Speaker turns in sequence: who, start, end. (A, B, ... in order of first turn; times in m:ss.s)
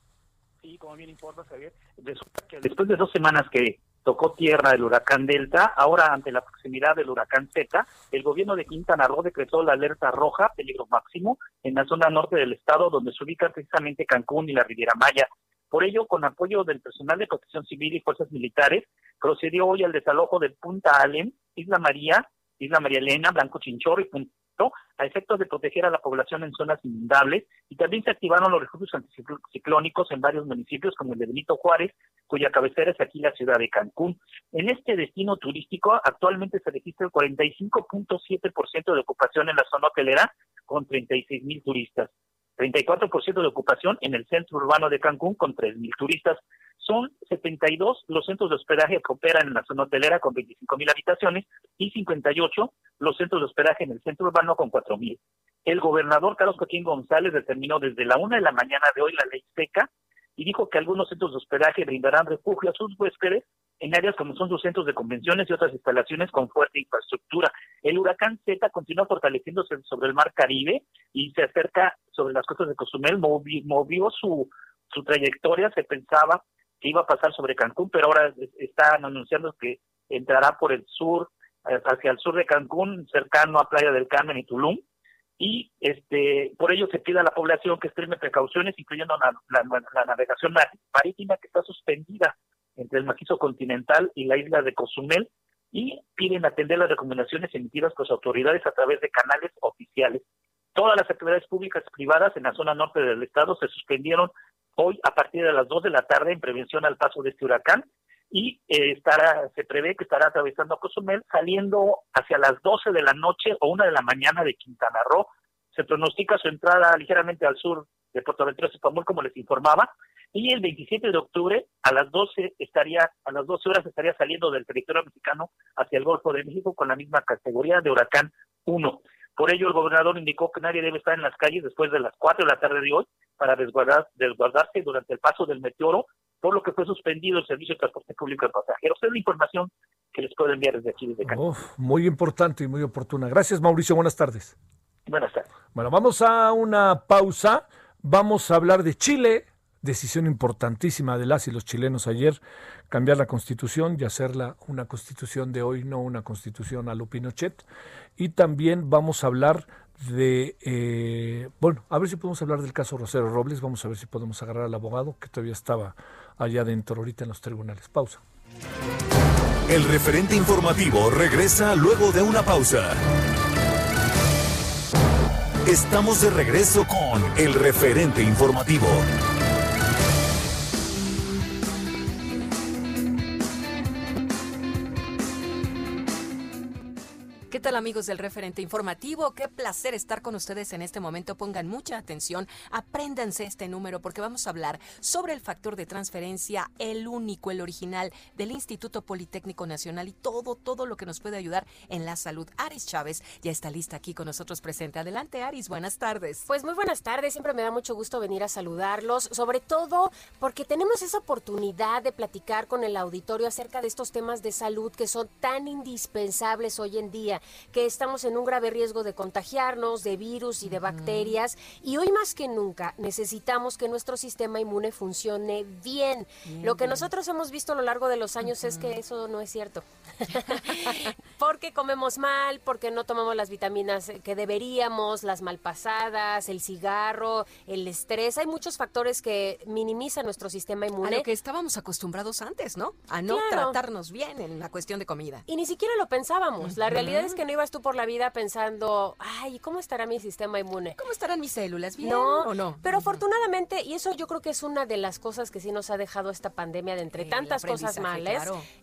0:00.6-1:24.8 A
1:25.4-1:40.2 A
1:40.8-2:21.4 A
2:21.2-2:24.6 B
2:25.1-2:25.5 A
2:25.7-2:37.6 B
2:38.2-2:48.2 B
2:49.7-2:53.0 C
2:55.7-2:59.1 C
3:07.5-3:26.5 D
3:26.5-4:01.3 E
3:40.6-3:41.4 D
3:46.4-3:47.1 D
3:48.4-3:49.0 D
4:01.0-4:05.4 D
4:03.3-4:03.8 E
4:05.5-4:11.0 E
4:06.6-4:07.4 D
4:11.0-4:13.2 D
4:12.0-4:18.5 E
4:17.1-4:18.7 D